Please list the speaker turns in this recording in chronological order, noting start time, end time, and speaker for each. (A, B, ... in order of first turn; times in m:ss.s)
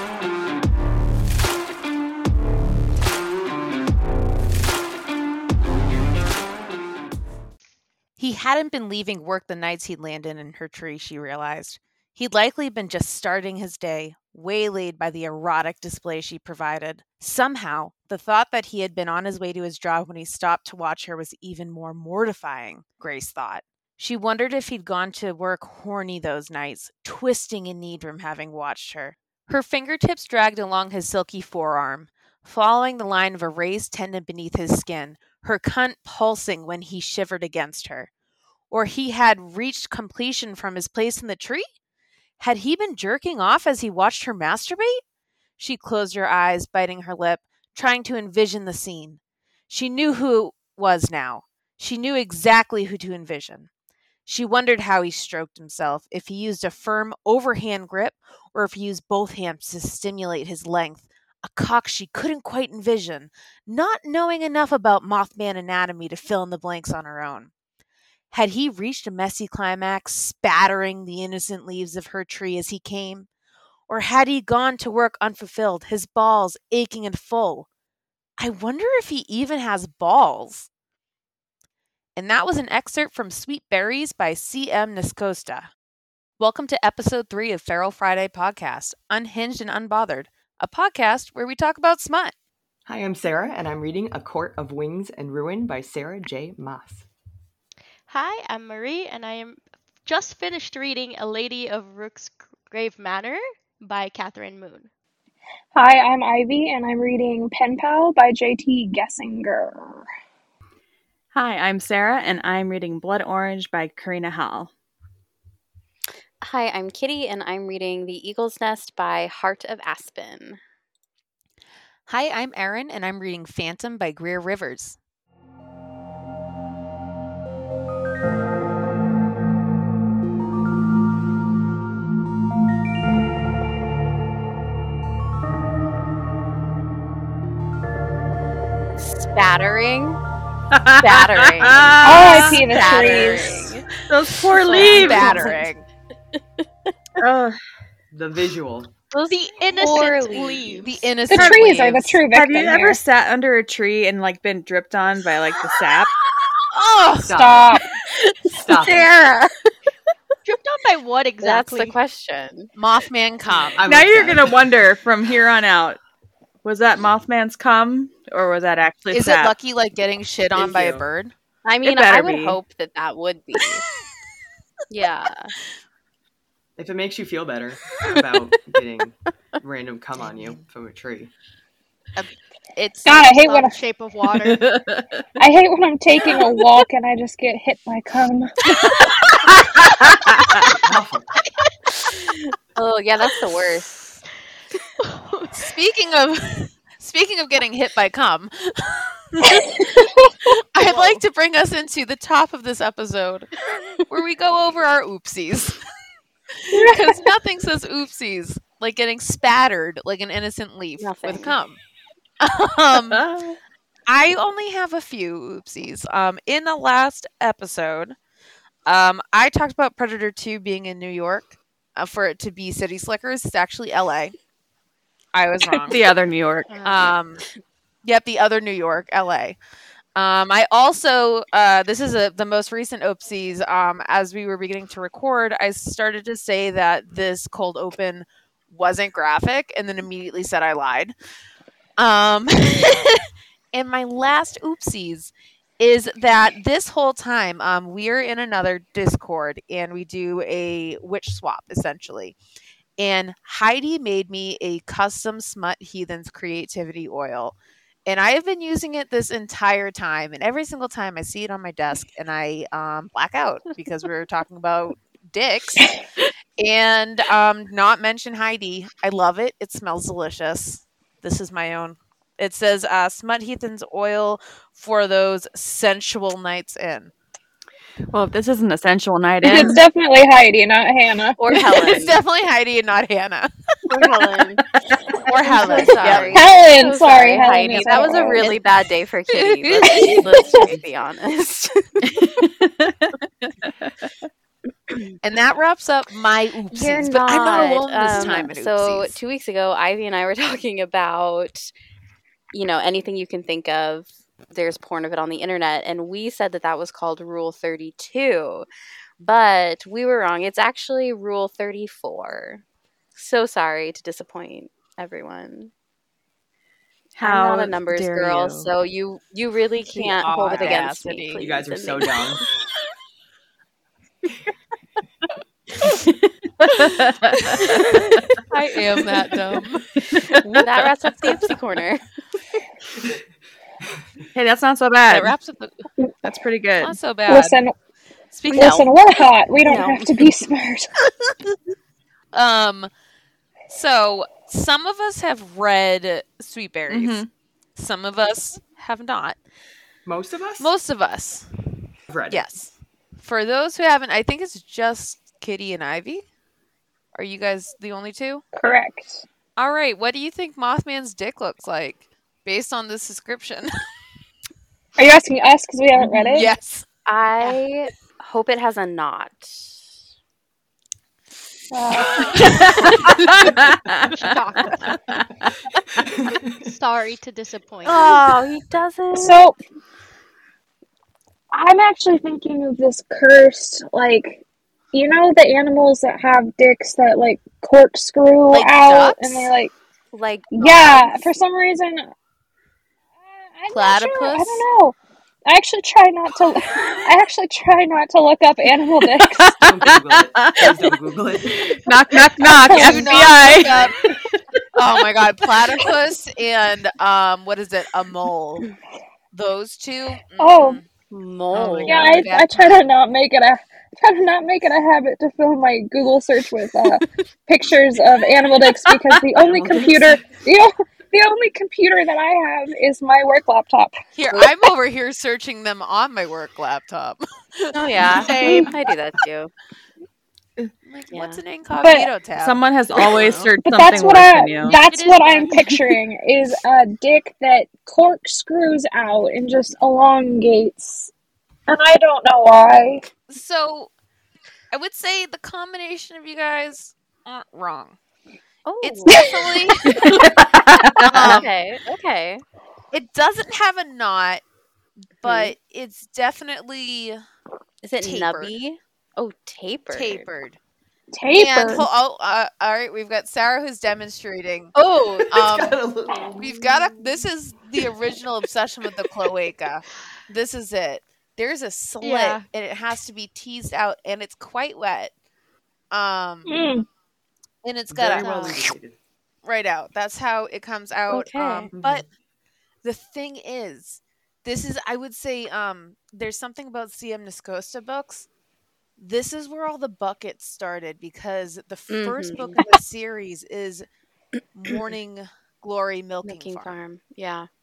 0:08.2-0:38.1 A
0:38.7-0:41.6 A
0:42.4-0:45.0 A
0:45.6-0:53.7 A
0:54.3-1:07.5 A
1:08.3-1:13.3 A
1:13.9-1:17.7 A
1:18.4-1:20.7 A
1:22.2-1:25.7 A
1:26.4-1:32.3 A
1:32.9-1:37.1 B
1:38.1-1:44.9 C
1:45.7-1:50.0 D
1:51.3-1:54.7 E
1:56.4-2:00.6 F
2:02.1-2:05.0 A
2:19.0-2:20.2 F
2:20.7-2:25.6 E
2:21.0-2:23.9 F
2:22.0-2:23.7 D
2:22.3-2:23.7 A
2:24.6-2:25.5 F
2:24.7-2:25.8 A
2:27.2-2:27.6 E
2:28.1-2:28.9 B
2:29.1-2:31.9 F
2:29.3-2:31.0 C
2:30.8-2:32.2 A
2:31.3-2:33.0 D
2:32.3-2:36.1 E
2:36.7-2:37.3 A
2:37.2-2:37.8 B
2:37.3-2:37.8 D
2:38.3-2:39.5 F
2:38.6-2:39.1 B
2:40.4-2:42.0 C
2:41.4-2:42.7 F
2:42.8-2:43.8 A
2:43.8-2:44.8 B
2:43.8-2:46.0 E
2:46.6-2:49.5 E
2:49.1-2:51.3 A
2:50.5-2:51.0 B
2:51.6-2:53.8 F
2:51.8-2:52.6 E
2:54.9-2:55.5 F
2:56.8-3:01.3 B
3:02.2-3:03.7 A
3:03.1-3:03.7 D
3:03.6-3:04.7 C
3:04.4-3:05.2 E
3:05.4-3:08.6 D
3:09.0-3:10.8 E
3:10.8-3:11.3 B
3:12.8-3:14.0 F
3:15.0-3:15.6 C
3:15.5-3:19.6 A
3:19.5-3:20.0 D
3:20.7-3:23.5 A
3:24.1-3:25.8 A
3:26.6-3:31.8 A
3:26.7-3:27.2 D
3:31.0-3:31.5 F
3:32.4-3:33.3 A
3:33.1-3:33.6 E
3:34.1-3:38.2 A
3:38.9-3:44.3 A
3:45.3-3:46.0 A
3:45.7-3:46.8 E
3:46.7-3:47.1 F
3:46.8-3:47.4 A
3:48.0-3:49.6 A
3:50.2-4:01.1 A
4:02.0-4:12.4 A
4:13.0-4:26.0 A
4:26.6-4:37.1 A
4:38.1-4:39.8 E
4:39.4-4:41.9 D
4:41.4-4:42.2 F
4:41.8-4:43.5 A
4:43.9-4:44.6 F
4:45.2-4:46.4 A
4:45.3-4:52.0 F
4:46.3-4:48.6 D
4:47.8-4:48.0 A
4:49.3-4:50.3 A
4:49.8-4:50.6 D
4:50.6-4:50.8 B
4:52.0-4:54.1 E
4:55.2-4:59.2 A
4:56.7-5:01.7 F
5:02.5-5:08.7 F
5:09.2-5:12.6 F
5:13.2-5:15.7 F
5:17.2-5:18.7 E
5:17.2-5:22.2 F
5:19.9-5:21.4 A
5:21.4-5:22.4 B
5:25.8-5:28.4 E
5:27.5-5:29.8 A
5:29.9-5:31.4 E
5:30.4-5:32.0 F
5:34.3-5:35.3 E
5:35.1-5:35.8 A
5:36.2-5:37.0 E
5:36.8-5:37.6 A
5:37.3-5:37.8 D
5:38.3-5:38.9 A
5:38.5-5:40.9 D
5:39.6-5:40.2 F
5:42.3-5:42.9 A
5:43.7-5:47.2 A
5:46.9-5:47.3 E
5:47.8-5:49.4 A
5:50.1-5:50.7 B
5:50.6-5:51.5 A
5:52.1-5:52.4 B
5:52.3-5:56.3 A
5:57.1-5:58.4 A
5:58.5-5:59.2 D
5:59.6-6:03.7 A
6:05.0-6:06.5 D
6:06.3-6:06.9 A
6:07.1-6:09.7 F
6:11.7-6:12.3 D
6:12.2-6:13.5 A
6:12.5-6:16.0 E
6:14.1-6:15.0 C
6:16.1-6:16.7 B
6:16.6-6:18.1 C
6:17.8-6:19.4 F
6:19.1-6:19.6 D
6:21.5-6:24.4 D
6:24.9-6:29.8 D
6:28.5-6:29.5 A
6:30.1-6:31.3 F
6:30.5-6:32.1 D
6:33.6-6:39.6 D
6:33.7-6:34.7 A
6:39.0-6:41.0 E
6:39.6-6:41.8 B
6:41.6-6:43.9 E
6:42.6-6:43.5 D
6:42.6-6:43.9 A
6:44.7-6:48.7 A
6:49.3-6:50.9 A
6:50.4-6:50.8 D
6:51.1-6:52.2 F
6:51.5-6:52.8 A
6:51.8-7:03.9 D
6:59.4-7:00.2 B
7:04.2-7:08.7 A
7:07.7-7:09.5 F
7:08.3-7:08.7 D
7:10.8-7:13.5 A
7:11.1-7:11.4 F
7:11.8-7:12.1 D
7:12.4-7:14.8 E
7:13.0-7:21.1 D
7:14.8-7:15.8 C
7:21.7-7:23.1 D
7:23.3-7:23.9 A
7:24.7-7:28.0 A
7:28.6-7:29.4 F
7:28.8-7:30.2 A
7:29.1-7:29.5 D
7:29.9-7:31.4 E
7:31.0-7:31.5 A
7:31.2-7:32.4 F
7:32.9-7:34.4 A
7:35.2-7:37.2 A
7:35.2-7:35.5 F
7:37.8-7:40.3 F
7:38.0-7:38.5 A
7:39.9-7:40.6 A
7:41.2-7:41.9 D
7:41.3-7:44.8 A
7:44.8-7:45.4 F
7:45.3-7:46.5 B
7:45.3-7:45.8 A
7:46.4-7:55.1 A
7:52.0-7:52.5 C
7:55.9-7:56.6 A
7:56.5-7:56.9 D
7:57.6-7:58.7 A
7:57.9-7:59.0 B
7:58.2-7:58.6 C
7:59.4-8:02.0 A
8:01.1-8:01.7 F
8:01.7-8:02.1 B
8:02.8-8:08.3 A
8:09.0-8:13.9 A
8:11.9-8:12.7 F
8:14.5-8:16.8 A
8:16.2-8:17.5 F